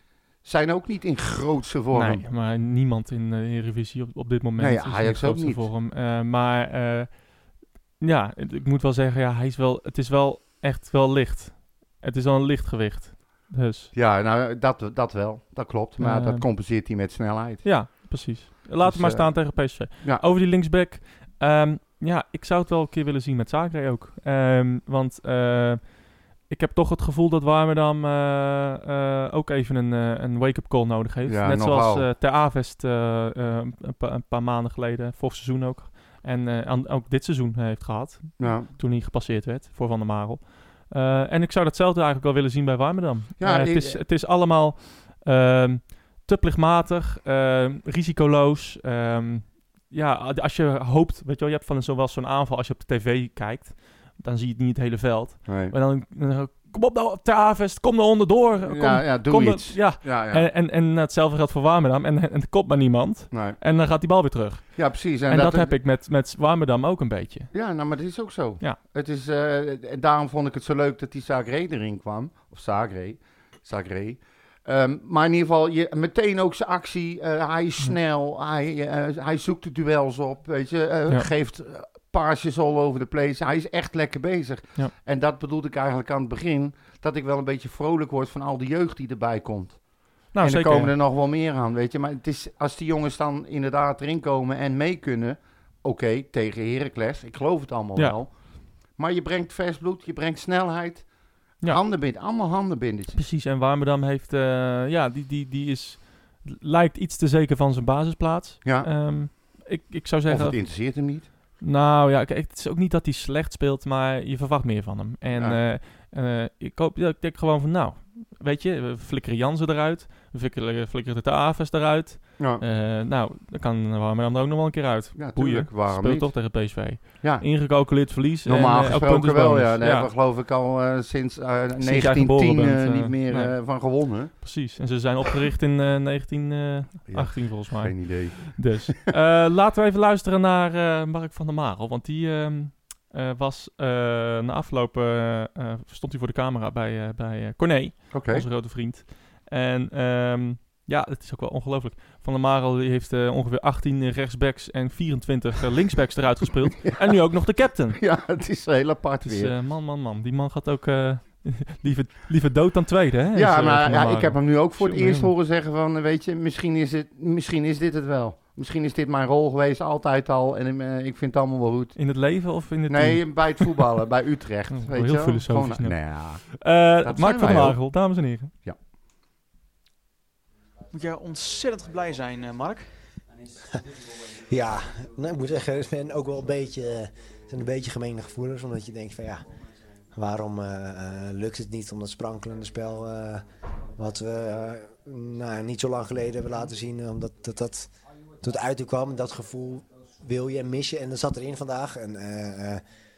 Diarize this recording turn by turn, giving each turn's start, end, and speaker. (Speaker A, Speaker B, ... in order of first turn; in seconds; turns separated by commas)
Speaker A: 0.4-2.2, Speaker B: 1.9-13.9, Speaker A: 4.6-5.7, Speaker A: 13.9-18.2, Speaker B: 16.0-16.4, Speaker B: 17.6-67.5, Speaker A: 18.8-20.2, Speaker A: 31.3-32.1, Speaker A: 38.4-38.7, Speaker A: 43.4-44.0, Speaker A: 55.5-55.7, Speaker A: 58.6-60.5, Speaker A: 63.3-63.6, Speaker A: 64.8-65.7, Speaker A: 67.5-103.2, Speaker B: 90.3-90.9, Speaker B: 103.1-130.1, Speaker A: 108.6-109.4, Speaker A: 110.3-111.3, Speaker A: 125.2-134.6, Speaker B: 131.8-158.0, Speaker A: 137.1-138.9, Speaker A: 148.1-148.4, Speaker A: 156.8-157.2, Speaker A: 157.9-159.5, Speaker B: 159.2-165.3, Speaker A: 163.3-172.0, Speaker B: 172.0-173.9, Speaker A: 172.9-178.0, Speaker B: 174.7-178.5, Speaker C: 180.9-182.9, Speaker D: 184.5-189.4, Speaker D: 190.2-193.4, Speaker D: 194.0-197.9, Speaker D: 198.4-202.8